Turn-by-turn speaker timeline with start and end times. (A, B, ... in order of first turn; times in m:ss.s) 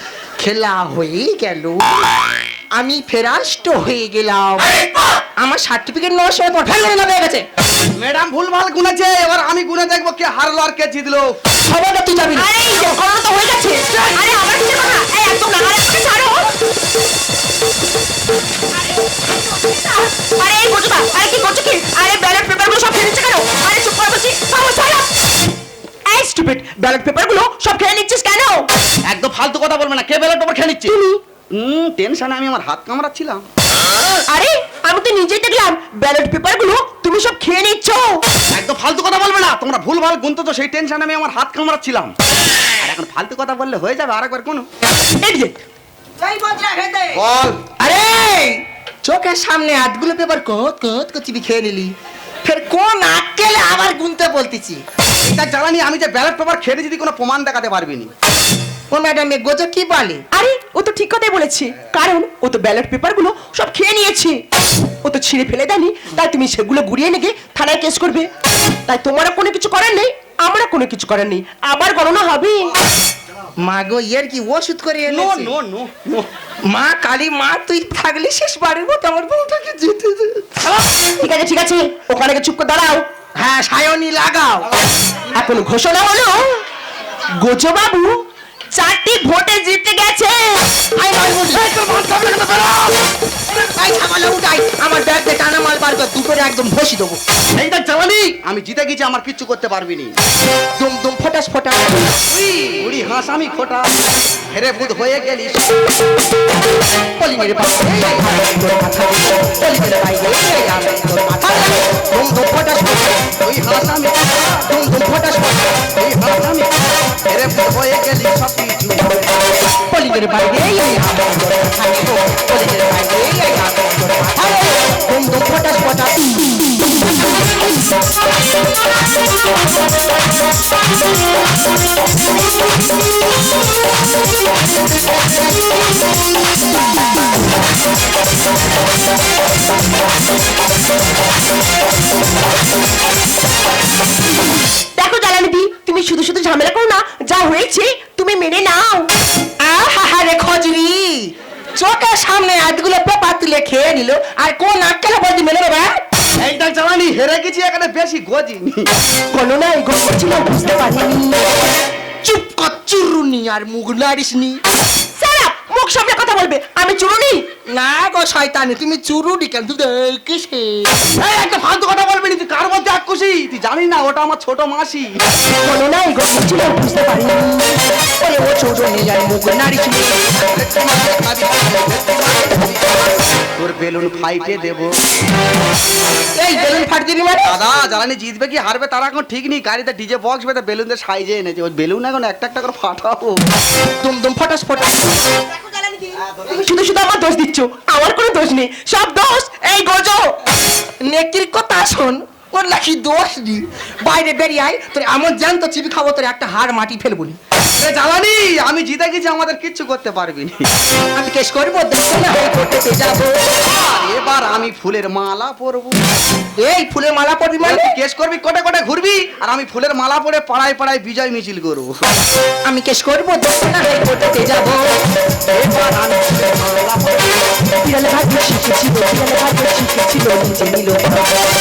0:00.4-0:01.9 A
0:02.8-0:04.8 A
0:05.4-0:07.4 A
0:08.0-0:11.3 B
0:11.7-0:12.5 A
0:12.3-0:16.5 C
0:18.8-0:25.1 C
0:26.1-0:28.7 C
0:29.1-0:31.0 B
0:30.9-0:31.2 C
0:31.5-0:33.5 B
0:34.3-0:38.2 C
0:38.5-0:42.1 B
0:42.8-0:44.7 B
0:45.2-0:45.6 C
0:46.2-0:47.2 A
0:47.1-0:47.6 B
0:47.8-0:54.8 A
0:55.2-0:58.1 B
0:58.9-1:00.2 A
1:00.3-1:04.4 C
1:05.0-1:08.3 C
1:08.9-1:12.7 C
1:13.6-1:15.5 A
1:15.1-1:16.3 B
1:16.7-1:20.6 A
1:20.6-1:23.0 C
1:23.4-1:24.7 A
1:25.3-1:26.6 C
1:27.4-1:28.2 C
1:28.7-1:30.7 C
1:31.0-1:31.7 A
1:31.5-1:33.0 B
1:33.5-1:37.2 A
1:37.6-1:40.2 B
1:40.8-1:42.1 A
1:42.3-1:43.9 B
1:44.5-1:45.8 B
1:47.2-1:53.2 A
1:53.4-1:54.7 B
1:54.7-1:55.7 A
1:56.0-1:56.7 B
1:57.3-1:59.3 B
1:59.9-2:06.9 A
2:25.0-2:29.1 C
2:29.6-2:36.0 A
2:36.4-2:38.9 B
2:39.3-2:41.4 C
2:42.2-2:44.6 A
2:45.2-2:47.4 C
2:47.7-2:51.0 A
2:51.2-2:55.2 B
2:55.6-2:57.8 C
2:58.2-3:00.2 A
3:00.3-3:03.0 B
3:03.6-3:05.0 B
3:06.4-3:07.6 A
3:07.4-3:13.4 B
3:14.0-3:15.2 A
3:15.6-3:20.4 C
3:21.0-3:27.4 A
3:27.8-3:30.7 B
3:31.2-3:33.4 A
3:33.6-3:36.0 B
3:36.6-3:38.0 A
3:37.6-3:42.0 B
3:42.7-3:44.8 A
3:45.5-3:47.6 B
3:47.8-3:51.3 C